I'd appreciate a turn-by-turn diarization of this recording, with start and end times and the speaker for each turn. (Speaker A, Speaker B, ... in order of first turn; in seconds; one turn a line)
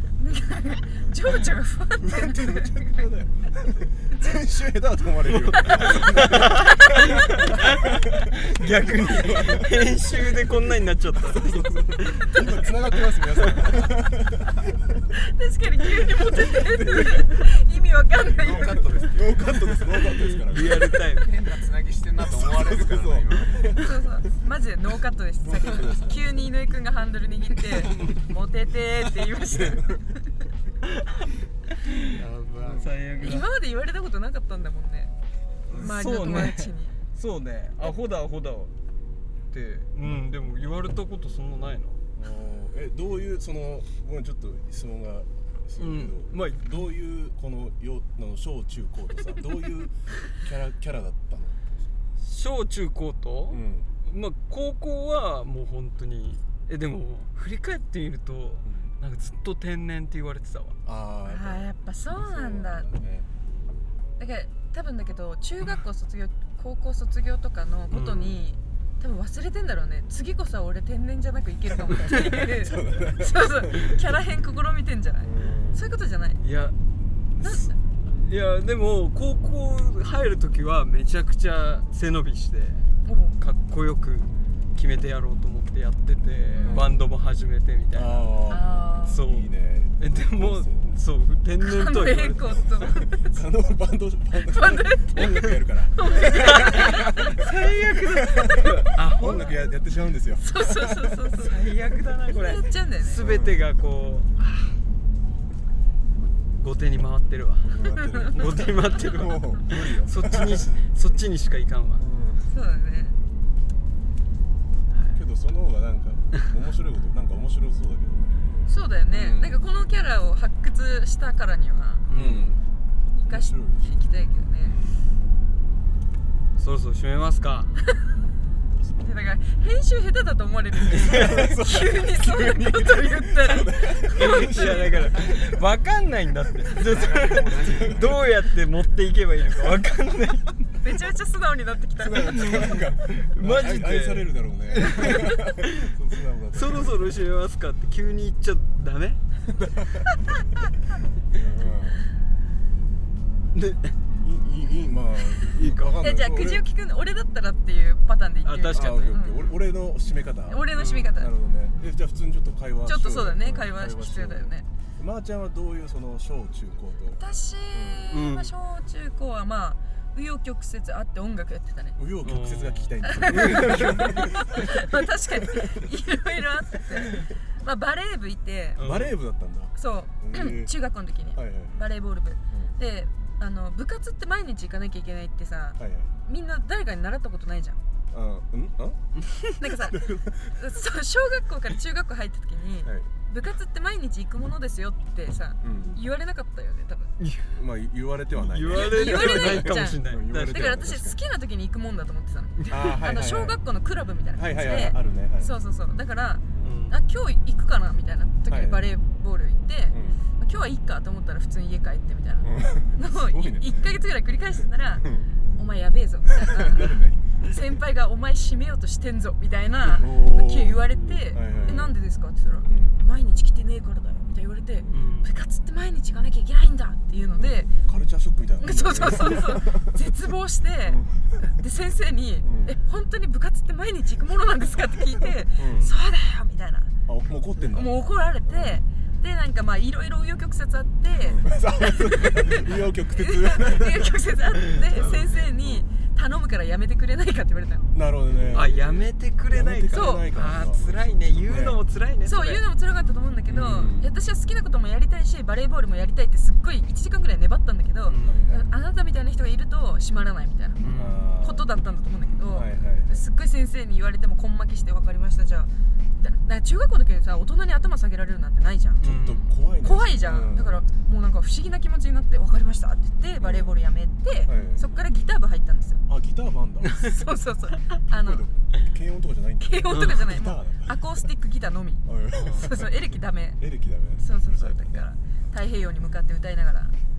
Speaker A: 0.2-3.0
Speaker B: 2.0-9.9
Speaker C: 5.3-12.7
Speaker B: 11.1-15.1
Speaker C: 13.3-13.7
Speaker A: 15.2-19.0
Speaker B: 16.4-17.3
Speaker D: 18.2-20.0
Speaker B: 19.1-21.0
Speaker C: 20.0-21.3
Speaker D: 21.1-23.9
Speaker B: 22.2-24.0
Speaker A: 23.8-30.0
Speaker B: 25.4-26.4
Speaker D: 25.6-26.1
Speaker B: 29.4-30.1
Speaker C: 31.8-33.5
Speaker D: 32.1-32.9
Speaker B: 32.6-32.9
Speaker A: 33.2-35.1
Speaker B: 35.7-36.0
Speaker C: 35.7-38.7
Speaker A: 35.8-37.0
Speaker C: 39.5-42.0
Speaker B: 42.1-51.9
Speaker C: 45.8-46.9
Speaker C: 52.2-60.8
Speaker B: 53.5-53.9
Speaker B: 58.6-58.9
Speaker B: 60.9-63.3
Speaker A: 61.3-62.9
Speaker A: 64.2-76.4
Speaker C: 67.9-68.4
Speaker B: 72.0-74.0
Speaker B: 75.2-75.8
Speaker C: 76.4-76.8
Speaker C: 77.3-88.3
Speaker A: 77.4-77.8
Speaker A: 83.0-83.4
Speaker A: 86.5-87.0
Speaker B: 86.6-87.0
Speaker B: 87.9-90.8
Speaker A: 88.5-89.2
Speaker C: 89.0-92.7
Speaker A: 91.6-93.3
Speaker B: 92.8-101.3
Speaker A: 94.4-97.2
Speaker C: 96.3-99.6
Speaker A: 100.4-101.6
Speaker C: 101.4-104.3
Speaker A: 102.3-103.2
Speaker B: 103.2-103.6
Speaker C: 106.6-112.0
Speaker B: 107.6-110.7
Speaker B: 112.0-112.5
Speaker A: 112.5-113.2
Speaker C: 114.9-115.2
Speaker B: 115.1-118.6
Speaker A: 118.7-122.1
Speaker B: 119.1-119.6
Speaker C: 122.1-122.6
Speaker B: 122.1-122.6
Speaker A: 123.1-124.8
Speaker B: 123.3-124.0
Speaker D: 124.6-125.0
Speaker C: 126.6-127.7
Speaker B: 128.7-129.1
Speaker A: 129.0-134.8
Speaker C: 130.9-131.5
Speaker B: 131.0-135.4
Speaker C: 134.1-140.6
Speaker D: 136.8-138.2
Speaker B: 137.6-138.2
Speaker A: 140.8-142.5
Speaker B: 142.0-147.1
Speaker C: 142.4-145.9
Speaker C: 146.5-149.2
Speaker B: 149.5-150.2
Speaker B: 151.3-152.1
Speaker C: 153.5-154.0
Speaker B: 154.2-156.7
Speaker C: 155.4-156.0
Speaker A: 156.0-159.5
Speaker C: 158.4-159.2
Speaker B: 158.7-168.1
Speaker A: 160.5-161.3
Speaker C: 160.8-161.1
Speaker A: 162.8-164.7
Speaker A: 167.2-172.0
Speaker C: 168.1-168.5
Speaker B: 172.0-175.0
Speaker C: 172.2-174.2
Speaker A: 173.0-178.8
Speaker B: 175.6-175.8
Speaker C: 178.8-179.2
Speaker B: 178.8-180.7
Speaker A: 179.8-187.8
Speaker B: 181.3-181.8
Speaker B: 185.8-186.1
Speaker B: 188.1-189.1
Speaker A: 189.6-197.1
Speaker B: 189.8-190.6
Speaker B: 192.8-193.1
Speaker B: 195.6-196.0
Speaker C: 197.2-197.5
Speaker B: 197.5-201.2
Speaker C: 198.3-200.7
Speaker A: 198.7-227.7
Speaker B: 202.7-203.6
Speaker B: 204.3-205.5
Speaker C: 206.6-207.0
Speaker B: 208.5-208.8
Speaker B: 209.9-210.2
Speaker B: 212.4-213.7
Speaker B: 215.0-215.3
Speaker B: 216.5-217.2
Speaker B: 219.8-222.0
Speaker C: 221.4-221.9
Speaker B: 222.7-223.0
Speaker C: 224.9-225.3
Speaker B: 227.3-230.1
Speaker A: 228.6-236.9
Speaker B: 230.9-231.4
Speaker B: 232.4-232.8
Speaker B: 235.6-235.9
Speaker C: 235.7-236.0
Speaker B: 237.1-238.8
Speaker A: 237.7-247.9
Speaker B: 241.2-244.1
Speaker B: 244.9-245.8
Speaker C: 245.0-245.2
Speaker B: 247.9-251.8
Speaker C: 248.5-252.6
Speaker A: 249.9-250.3
Speaker A: 252.2-260.8
Speaker B: 253.5-254.1
Speaker C: 258.1-258.4
Speaker B: 258.2-258.7
Speaker C: 260.8-261.3
Speaker B: 260.9-261.7
Speaker A: 261.4-269.1
Speaker B: 262.5-263.2
Speaker C: 269.0-269.5
Speaker B: 269.0-270.8
Speaker A: 269.8-276.0
Speaker B: 273.4-273.8
Speaker B: 274.5-274.9
Speaker B: 276.1-277.1
Speaker A: 277.0-278.5
Speaker B: 278.1-281.0
Speaker A: 279.6-283.6
Speaker C: 279.9-280.2
Speaker B: 282.1-285.1
Speaker C: 282.3-282.7
Speaker A: 284.2-286.9